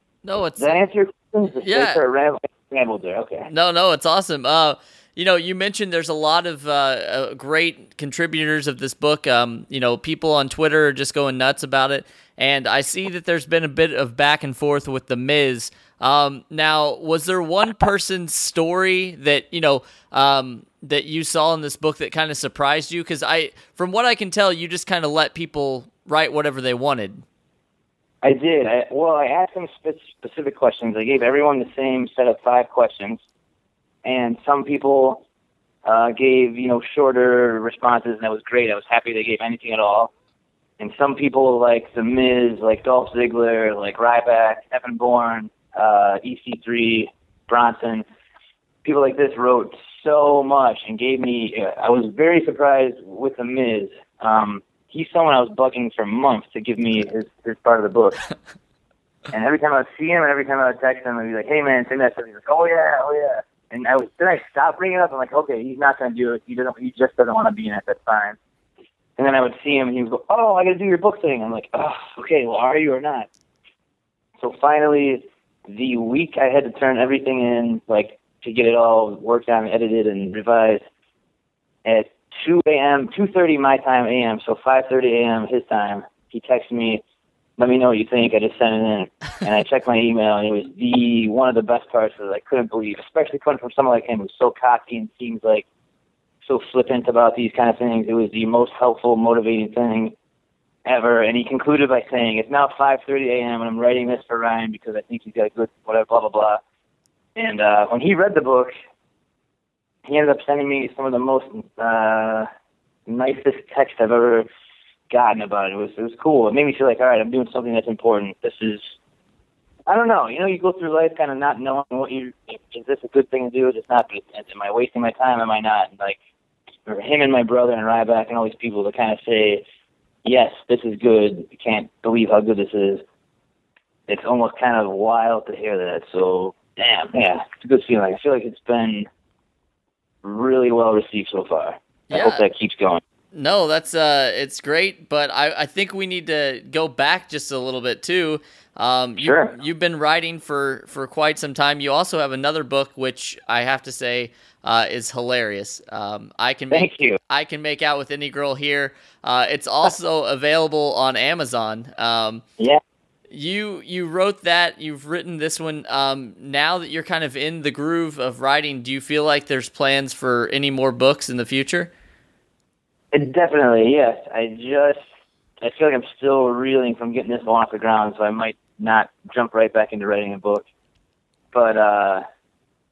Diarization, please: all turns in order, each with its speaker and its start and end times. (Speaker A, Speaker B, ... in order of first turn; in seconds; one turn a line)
Speaker A: 0.2-0.8
Speaker B: 0.6-3.5
Speaker A: 1.5-2.0
Speaker A: 3.5-27.2
Speaker B: 28.2-33.2
Speaker B: 34.0-35.2
Speaker B: 35.8-40.1
Speaker B: 40.8-48.0
Speaker B: 48.8-58.3
Speaker B: 59.3-68.4
Speaker B: 69.2-73.3
Speaker B: 74.4-80.8
Speaker B: 81.8-87.0
Speaker B: 87.6-95.7
Speaker B: 96.5-100.1
Speaker B: 100.8-106.6
Speaker B: 107.3-108.7
Speaker B: 110.0-112.5
Speaker B: 113.1-114.5
Speaker B: 115.1-118.9
Speaker B: 119.9-126.2
Speaker B: 126.8-129.6
Speaker B: 130.2-133.0
Speaker B: 134.1-139.1
Speaker B: 140.2-143.0
Speaker A: 142.1-142.4
Speaker A: 143.3-162.4
Speaker B: 149.2-149.5
Speaker B: 156.7-157.2
Speaker A: 163.3-171.9
Speaker B: 173.1-175.0
Speaker B: 175.6-180.7
Speaker B: 181.5-182.2